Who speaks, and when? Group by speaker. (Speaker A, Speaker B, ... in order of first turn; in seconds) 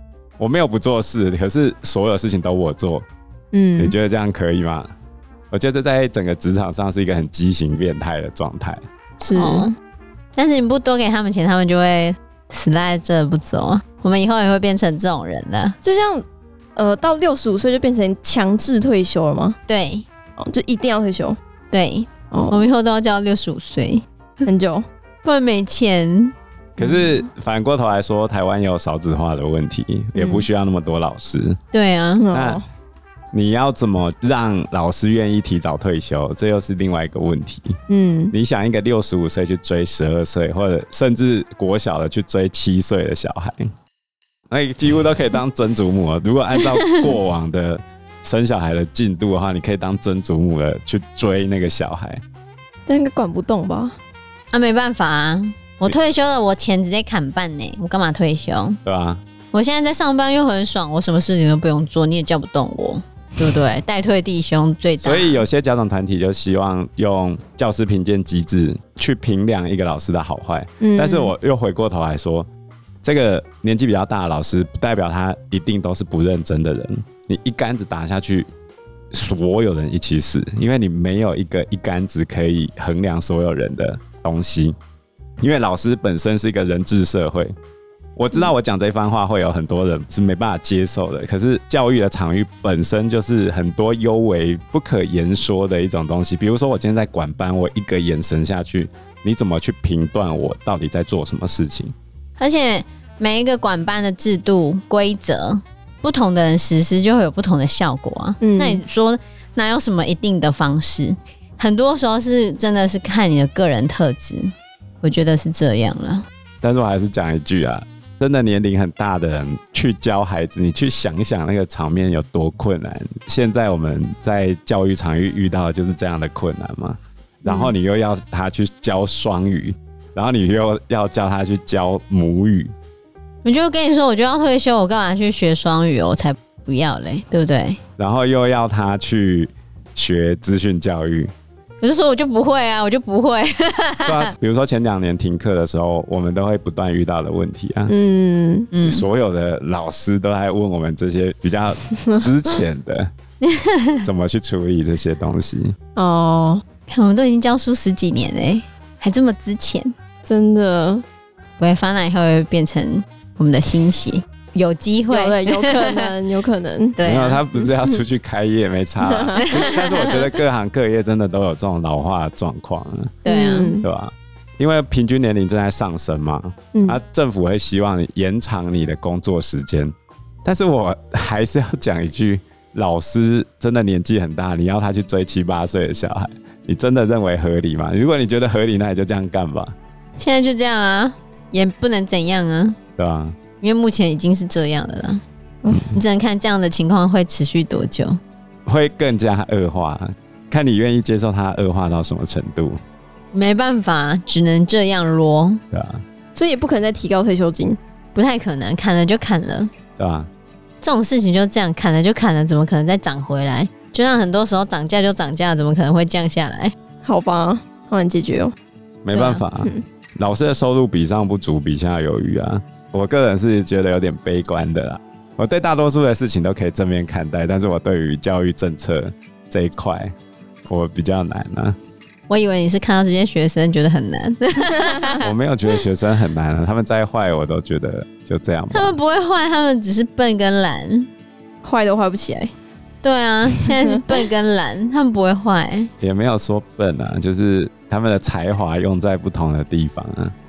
Speaker A: 0.4-3.0, 3.8-4.9, 5.5-8.8, 26.8-31.6, 32.3-32.6, 33.3-37.8, 38.3-43.7, 44.5-52.2, 58.8-59.2, 65.0-72.5, 73.0-78.5, 79.1-84.8, 85.4-87.5, 88.2-101.9, 116.6-132.7, 138.0-141.3, 144.0-147.9, 148.8-153.1, 154.0-155.7, 167.0-173.2, 173.8-179.9, 180.4-189.7, 193.0-193.3, 195.7-196.0, 198.7-202.8, 205.7-206.0, 210.0-210.3, 219.0-230.1, 230.6-231.8, 235.2-238.9, 246.0-250.3
Speaker B: 3.5-3.9, 9.2-9.7, 15.8-16.2, 16.8-19.6, 20.4-21.4, 22.3-22.7, 24.4-24.8, 26.8-27.1, 30.1-30.4, 32.2-32.6, 37.9-38.3, 52.9-54.0, 70.8-71.3, 108.4-108.8, 127.5-127.7, 147.9-148.7, 155.9-156.6, 160.2-161.0, 165.1-167.0, 169.0-169.6, 173.2-173.9, 176.7-177.0, 206.3-207.8, 217.0-218.5, 241.6-242.5, 243.6-244.0
Speaker C: 9.3-9.8, 10.3-15.8, 19.7-20.1, 21.7-24.0, 25.2-26.3, 31.7-32.2, 54.5-58.8, 59.5-65.4, 102.4-116.2, 133.4-137.8, 141.8-144.3, 148.7-149.0, 153.4-154.0, 156.9-159.9, 161.6-166.1, 167.0-167.4, 169.4-170.2, 173.2-173.7, 190.2-192.8, 193.6-195.2, 195.9-198.2, 203.3-205.6, 208.1-209.7, 210.8-216.7, 219.1-219.4, 232.3-235.2, 238.7-241.1, 243.0-245.9